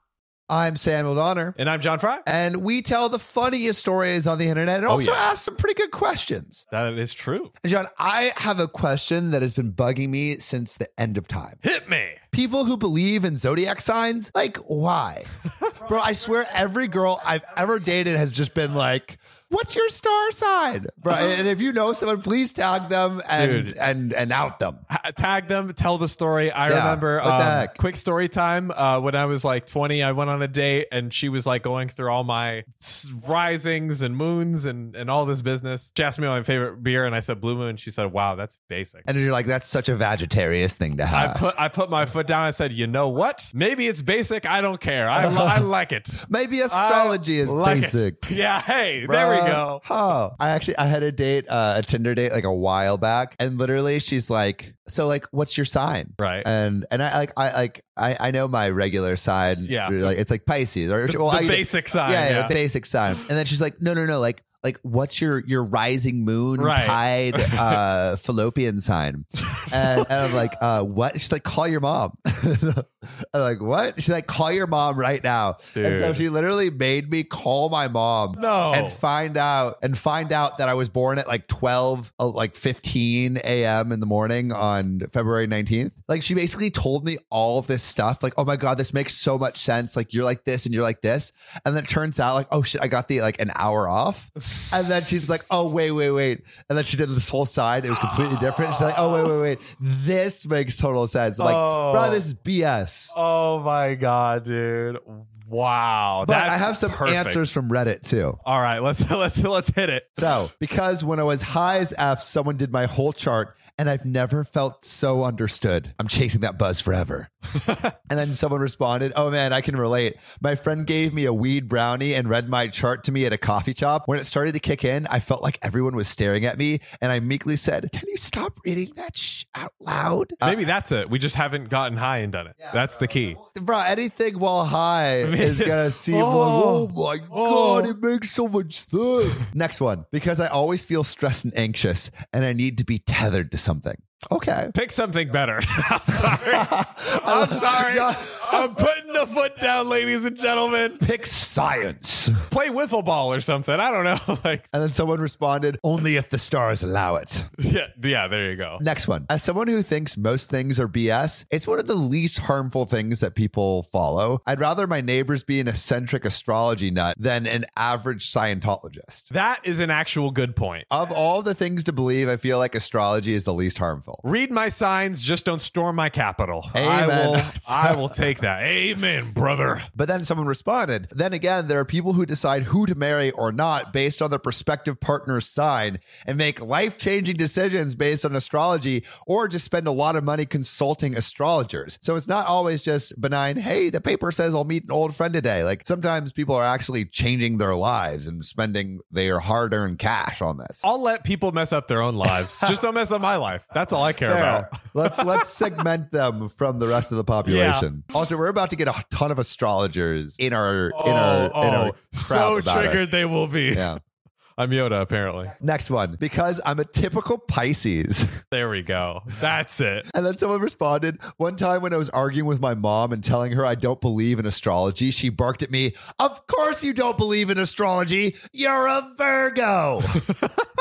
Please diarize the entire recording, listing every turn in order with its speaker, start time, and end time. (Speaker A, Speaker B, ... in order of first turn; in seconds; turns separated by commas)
Speaker A: 0.5-1.6, Speaker B: 1.6-2.2, Speaker A: 2.2-6.6, Speaker B: 4.9-5.3, Speaker B: 6.7-7.5, Speaker A: 7.6-11.6, Speaker B: 11.6-12.2, Speaker A: 12.3-24.8, Speaker B: 23.4-23.8, Speaker B: 24.9-39.1, Speaker A: 26.7-27.8, Speaker A: 39.1-41.5, Speaker B: 41.1-49.8, Speaker A: 45.2-45.7, Speaker A: 46.2-48.2, Speaker A: 49.0-103.1, Speaker B: 56.2-56.5, Speaker B: 59.6-60.1, Speaker B: 61.1-62.5, Speaker B: 66.6-67.8, Speaker B: 69.6-70.3, Speaker B: 75.7-76.2, Speaker B: 78.4-79.0, Speaker B: 101.4-102.2, Speaker B: 103.1-107.4, Speaker A: 106.2-108.4, Speaker B: 108.4-110.3, Speaker A: 110.2-117.3, Speaker A: 118.1-130.6, Speaker B: 130.4-133.4, Speaker A: 133.4-144.7, Speaker B: 135.2-137.9, Speaker B: 144.7-151.0, Speaker A: 146.5-148.5, Speaker A: 151.0-152.4, Speaker B: 152.5-154.7, Speaker A: 154.7-157.5, Speaker B: 157.6-158.8, Speaker A: 158.8-169.3, Speaker B: 169.3-170.9, Speaker A: 170.9-174.2, Speaker B: 174.2-179.9, Speaker A: 176.7-178.3, Speaker A: 179.9-200.8, Speaker B: 200.8-205.7, Speaker A: 202.3-202.7, Speaker A: 204.2-213.1, Speaker B: 207.4-207.8, Speaker B: 210.9-214.0, Speaker A: 213.7-214.0, Speaker B: 214.6-215.5, Speaker A: 215.6-218.4, Speaker B: 218.5-220.1, Speaker A: 220.1-230.2, Speaker B: 230.1-230.5